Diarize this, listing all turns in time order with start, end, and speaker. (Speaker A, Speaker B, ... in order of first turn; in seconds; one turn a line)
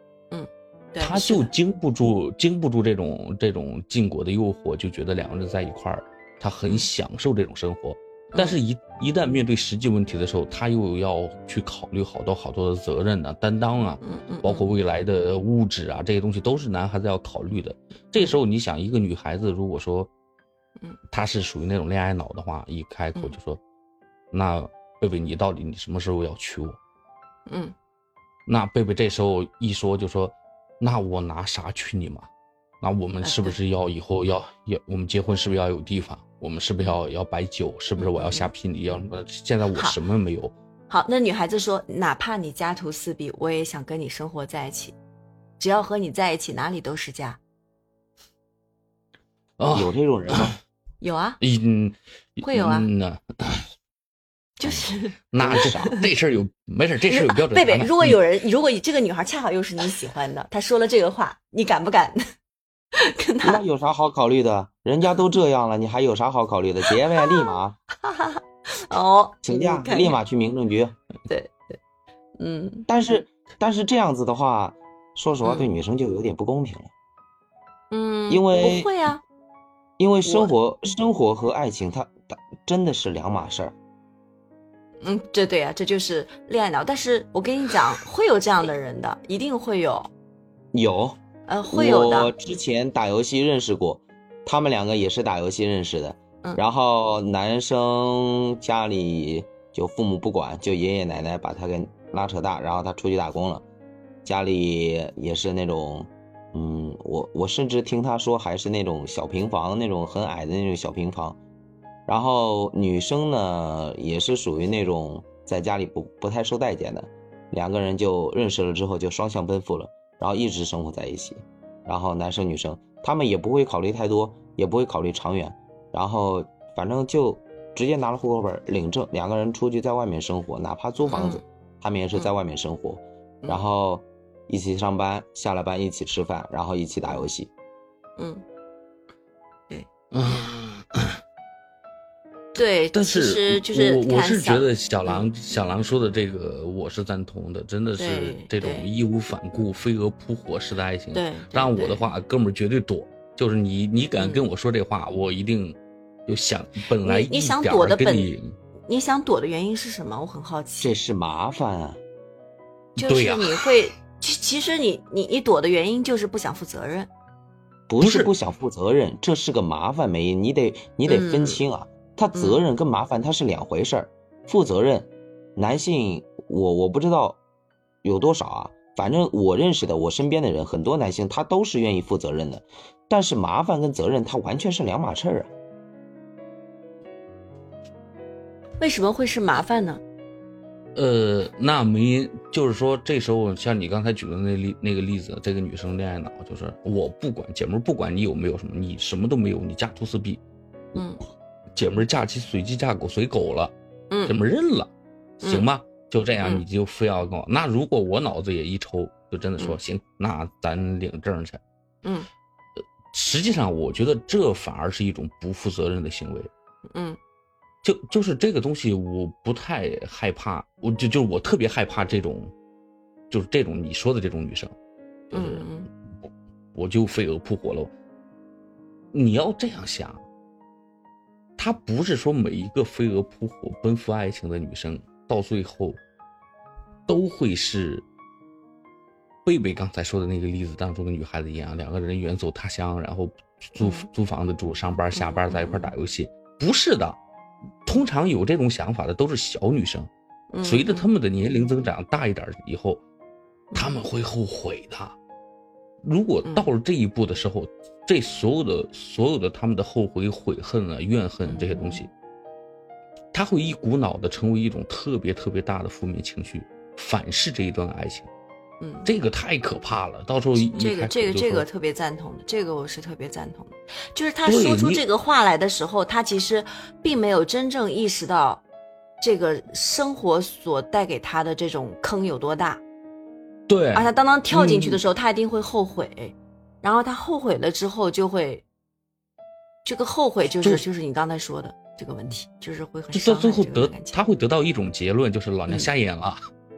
Speaker A: 0.3-1.5
Speaker B: 1.0-20.1
Speaker A: 14.0-14.7
Speaker B: 21.1-23.6
Speaker B: 24.3-26.8
Speaker A: 27.5-27.7
Speaker B: 28.5-32.3
Speaker B: 32.8-40.5
Speaker A: 33.2-33.6
Speaker A: 38.0-38.5
Speaker A: 40.9-45.0
Speaker A: 45.6-47.4
Speaker B: 49.6-50.6
Speaker C: 49.7-50.5
Speaker A: 51.0-51.4
Speaker B: 51.4-53.7
Speaker A: 52.4-52.9
Speaker A: 54.6-56.1
Speaker B: 54.6-58.2
Speaker C: 55.4-55.8
Speaker A: 57.1-62.2
Speaker A: 63.0-63.6
Speaker C: 63.4-67.8
Speaker A: 67.2-67.5
Speaker A: 68.0-70.2
Speaker C: 69.4-71.0
Speaker A: 71.3-71.8
Speaker A: 72.4-72.9
Speaker C: 72.9-76.9
Speaker A: 75.4-75.7
Speaker A: 77.9-79.2
Speaker C: 78.3-78.9
Speaker C: 80.0-83.8
Speaker A: 80.2-80.5
Speaker A: 85.0-90.1
Speaker C: 90.7-91.2
Speaker A: 91.5-92.3
Speaker C: 91.7-103.6
Speaker C: 104.2-111.4
Speaker C: 112.1-137.5
Speaker A: 131.1-131.4
Speaker A: 138.2-138.4
Speaker B: 140.1-141.2
Speaker A: 142.6-145.3
Speaker B: 142.6-158.5
Speaker A: 148.0-148.9
Speaker A: 151.1-152.1
Speaker A: 154.2-154.4
Speaker A: 157.0-158.3
Speaker A: 158.9-160.9
Speaker C: 160.8-162.0
Speaker A: 163.0-167.1
Speaker B: 163.0-163.7
Speaker C: 167.9-177.4
Speaker B: 168.0-168.3
Speaker A: 171.1-171.6
Speaker A: 172.3-172.6
Speaker C: 178.0-185.5
Speaker A: 188.8-190.0
Speaker B: 190.9-200.4
Speaker A: 200.9-201.2
Speaker B: 201.8-203.7
Speaker A: 204.1-204.4
Speaker B: 204.2-211.6
Speaker B: 213.1-216.5
Speaker A: 216.9-217.2
Speaker B: 217.8-222.5
Speaker B: 223.3-224.7
Speaker B: 225.3-225.7
Speaker A: 225.3-225.9
Speaker B: 226.7-227.9
Speaker B: 229.1-230.2
Speaker B: 231.6-236.0
Speaker B: 237.1-238.1
Speaker B: 239.4-247.2
Speaker A: 243.8-244.1
Speaker A: 245.2-245.9
Speaker B: 247.9-250.1
Speaker A: 250.5-251.1
Speaker B: 250.6-253.0
Speaker A: 253.7-254.0
Speaker B: 253.8-255.2
Speaker B: 256.0-262.1
Speaker A: 261.5-262.0
Speaker B: 263.3-268.3
Speaker A: 268.8-269.1
Speaker B: 269.1-271.7
Speaker A: 270.6-278.6
Speaker B: 274.4-275.0
Speaker A: 279.2-282.8
Speaker B: 283.7-285.0
Speaker A: 283.9-288.6
Speaker A: 289.9-294.2
Speaker B: 293.1-296.4